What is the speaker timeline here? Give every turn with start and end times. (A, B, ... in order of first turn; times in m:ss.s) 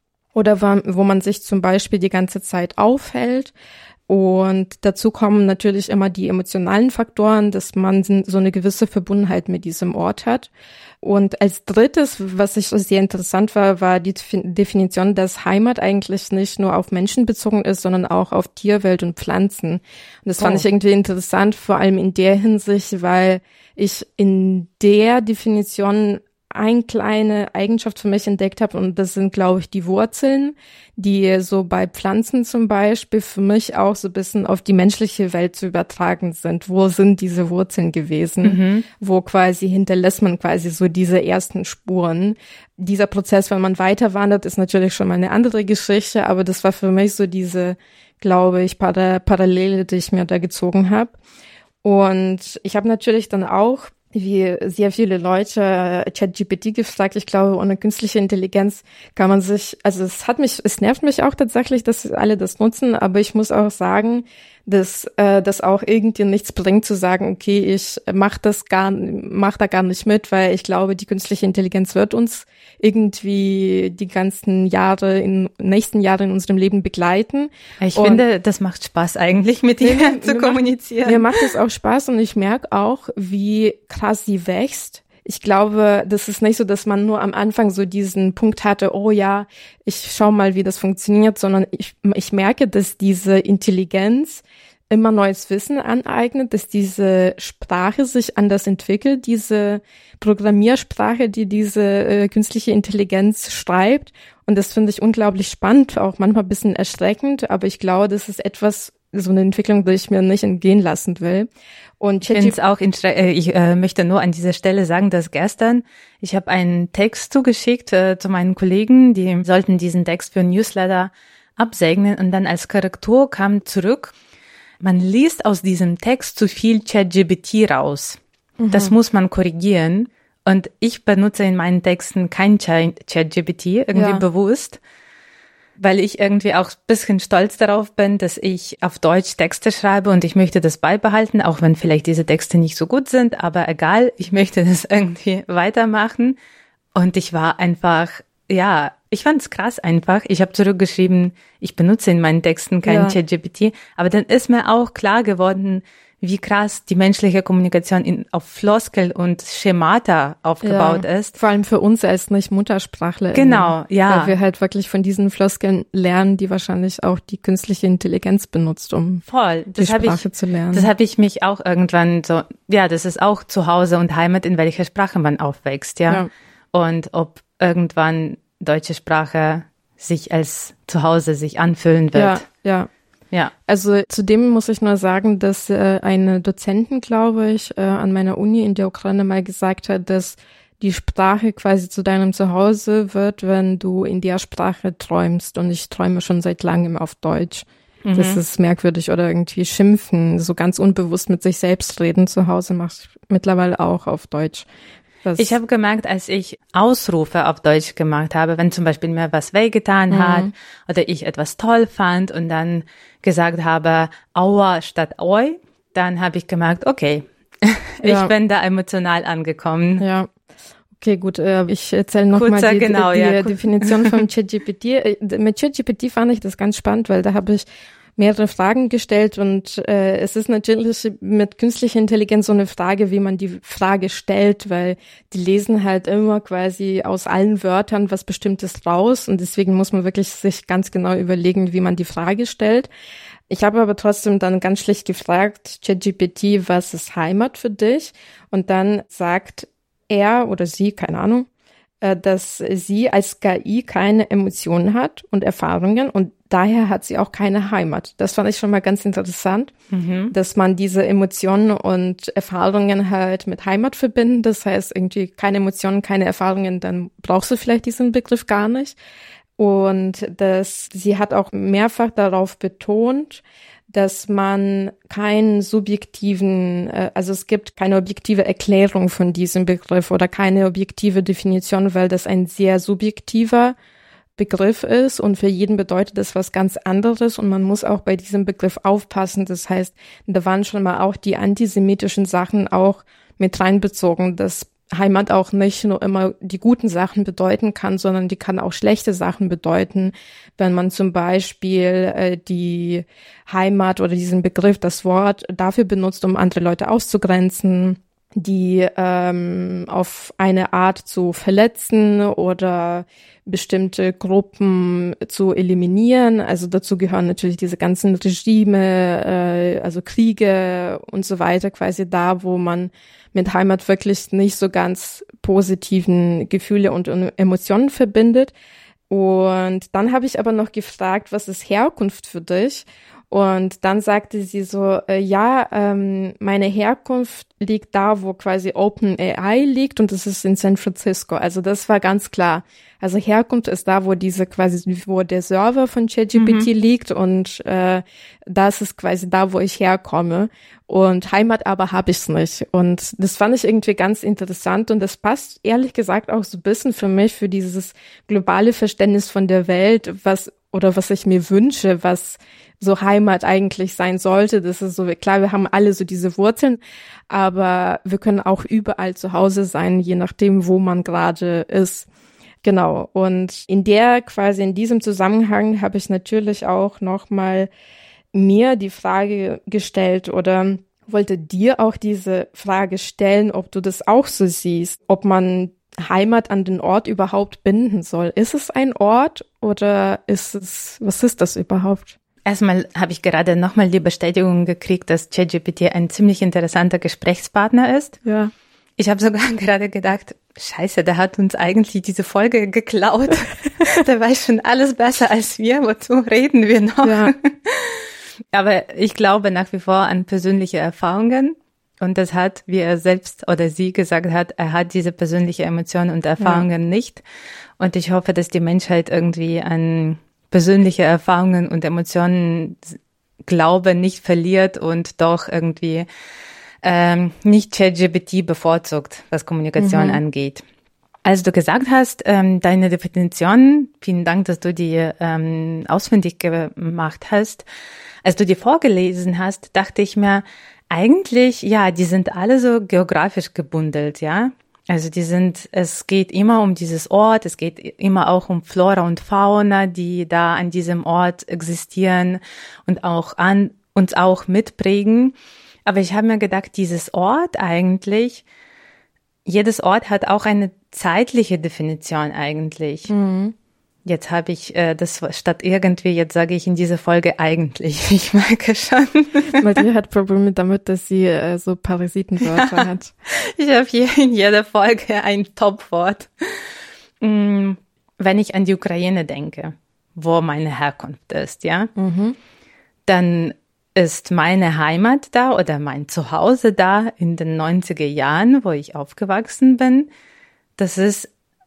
0:00.4-0:03.5 A
0:04.1-0:10.5 A
0:11.0-0:51.2 A
0:20.4-0:20.6 B
0:38.4-0:38.9 B
0:51.8-1:18.2 A
1:17.8-1:21.5 B
1:19.8-1:51.5 A
1:52.0-1:52.6 A
1:52.3-2:04.1 B
2:04.8-2:08.2 B
2:08.6-2:08.9 A
2:08.7-2:14.8 B
2:13.9-2:14.2 A
2:15.8-2:26.4 B
2:27.0-2:41.4 B
2:32.8-2:33.2 A
2:40.6-2:49.2 A
2:43.3-2:44.4 B
2:49.2-3:02.5 B
2:49.8-2:50.9 A
3:02.1-3:02.9 A
3:03.7-3:24.6 A
3:18.0-3:18.4 B
3:25.2-3:25.6 A
3:25.4-3:40.0 B
3:30.1-3:30.5 A
3:38.0-3:38.3 A
3:40.0-3:40.3 A
3:41.0-3:47.6 A
3:42.4-3:44.2 B
3:48.2-4:02.9 A
4:03.5-4:11.5 A
4:12.0-4:19.7 A
4:19.9-4:20.3 B
4:20.3-4:29.0 A
4:29.6-4:43.8 A
4:44.4-5:28.5 A
5:29.1-6:12.1 A
5:46.4-5:46.7 B
6:12.6-6:17.7 A
6:18.3-6:32.2 A
6:32.4-6:38.2 B
6:38.2-6:38.5 A
6:39.0-6:57.2 B
6:47.0-6:47.3 A
6:56.4-6:56.7 A
6:57.8-7:06.1 B
7:06.8-7:10.6 B
7:09.8-7:10.2 A
7:11.2-7:17.6 B
7:18.2-7:38.4 B
7:39.4-7:43.1 B
7:43.1-7:43.5 A
7:44.0-7:49.6 B
7:49.6-7:53.1 A
7:52.5-8:01.9 B
8:02.0-8:02.4 A
8:03.1-8:10.1 B
8:10.8-8:11.3 B